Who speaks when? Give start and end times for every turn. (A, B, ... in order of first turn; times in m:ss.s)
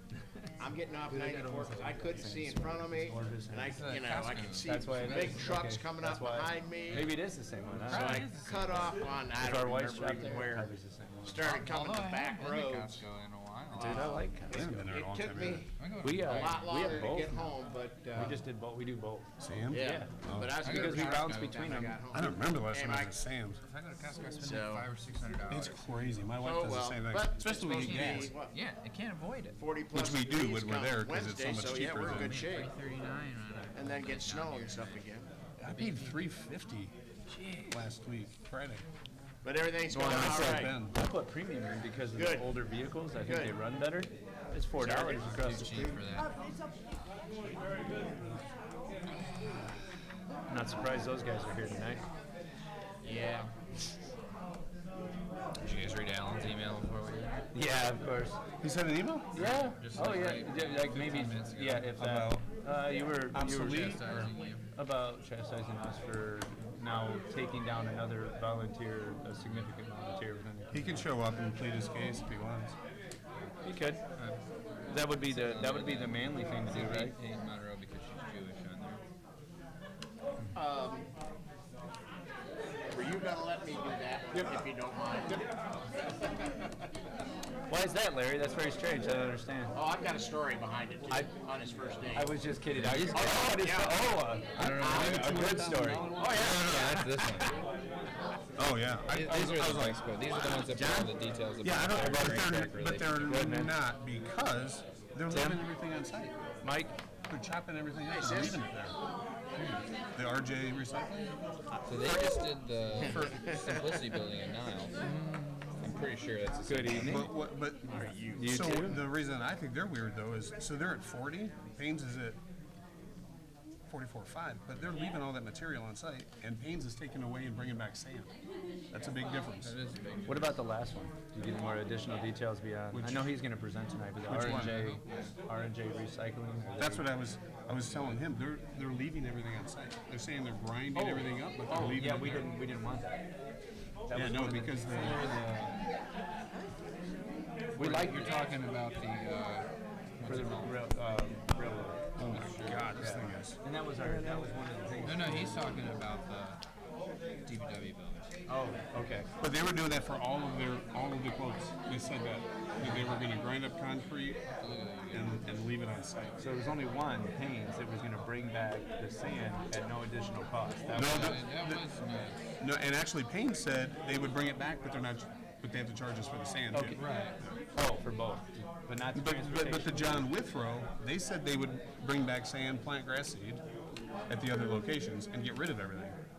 0:00.6-0:07.2 A
0:01.0-0:03.8 B
0:03.7-0:05.4 C
0:04.6-0:08.2 B
0:07.9-0:13.1 A
0:07.9-0:08.9 C
0:09.4-0:11.4 B
0:11.4-0:14.2 C
0:13.7-0:18.4 A
0:13.8-0:14.6 B
0:14.5-0:15.6 D
0:15.8-0:17.2 C
0:16.0-0:17.5 B
0:18.1-0:22.0 B
0:19.4-0:20.6 D
0:19.7-0:23.2 A
0:20.6-0:21.9 C
0:22.1-0:23.6 D
0:23.6-0:25.9 C
0:24.4-0:24.9 A
0:25.5-0:28.3 D
0:26.4-0:28.6 A
0:27.6-0:29.6 C
0:29.6-0:32.7 A
0:29.9-0:32.4 D
0:32.0-0:35.0 C
0:33.7-0:35.3 A
0:35.6-0:36.9 D
0:35.7-0:36.2 C
0:37.3-0:37.8 C
0:37.7-0:38.8 D
0:39.4-0:40.8 A
0:39.9-0:40.9 D
0:40.2-0:45.9 B
0:42.1-0:42.5 A
0:43.2-0:43.5 A
0:44.8-0:45.4 A
0:45.2-0:46.3 C
0:50.5-0:52.0 B
0:53.0-0:53.5 A
0:55.6-0:57.5 C
0:57.5-0:58.4 B
0:58.6-0:59.3 D
0:59.3-1:02.0 C
0:59.4-1:11.1 B
1:02.0-1:02.4 D
1:03.3-1:04.2 D
1:03.6-1:04.6 C
1:10.7-1:12.7 D
1:13.3-1:13.6 C
1:13.6-1:14.0 B
1:14.2-1:19.0 C
1:14.9-1:17.2 B
1:20.5-1:21.1 A
1:22.9-1:25.5 A
1:24.3-1:24.6 B
1:27.7-1:29.7 B
1:29.7-1:32.4 A
1:31.1-1:31.4 B
1:32.1-1:36.1 B
1:32.7-1:33.3 C
1:33.1-1:37.5 A
1:34.5-1:37.6 C
1:38.6-1:40.0 D
1:39.1-1:43.4 C
1:40.4-1:41.2 A
1:41.6-1:46.3 D
1:43.2-1:43.8 B
1:45.3-1:45.6 B
1:46.6-1:46.9 B
1:47.3-1:49.0 D
1:48.1-1:48.7 A
1:49.5-1:49.8 C
1:50.1-1:51.3 D
1:51.8-1:55.0 C
1:52.0-1:53.3 D
1:53.1-1:53.5 A
1:55.0-1:55.8 B
1:55.8-1:57.3 C
1:56.6-1:57.3 B
1:57.0-2:02.4 D
1:57.9-1:58.7 A
1:57.9-1:59.0 B
2:03.9-2:08.3 D
2:08.9-2:09.7 D
2:09.6-2:10.6 C
2:10.3-2:17.1 B
2:12.9-2:13.3 D
2:14.3-2:14.9 D
2:14.3-2:15.3 C
2:16.8-2:22.5 D
2:20.9-2:23.1 B
2:24.1-2:25.7 B
2:24.1-2:25.2 D
2:27.8-2:28.3 B
2:27.8-2:30.8 C
2:30.2-2:32.0 B
2:32.2-2:33.6 D
2:32.2-2:32.9 C
2:33.0-2:35.9 B
2:35.0-2:36.6 C
2:37.4-2:38.3 C
2:38.5-2:39.3 B
2:39.4-2:44.4 D
2:42.8-2:43.1 C
2:44.6-2:45.5 C
2:45.1-2:46.4 D
2:46.4-2:51.3 B
2:50.9-2:51.8 D
2:50.9-2:52.4 C
2:52.6-2:57.0 D
2:56.7-2:57.0 B
2:56.9-2:57.4 C
2:57.7-3:00.3 B
2:59.1-3:03.6 D
3:04.3-3:06.2 D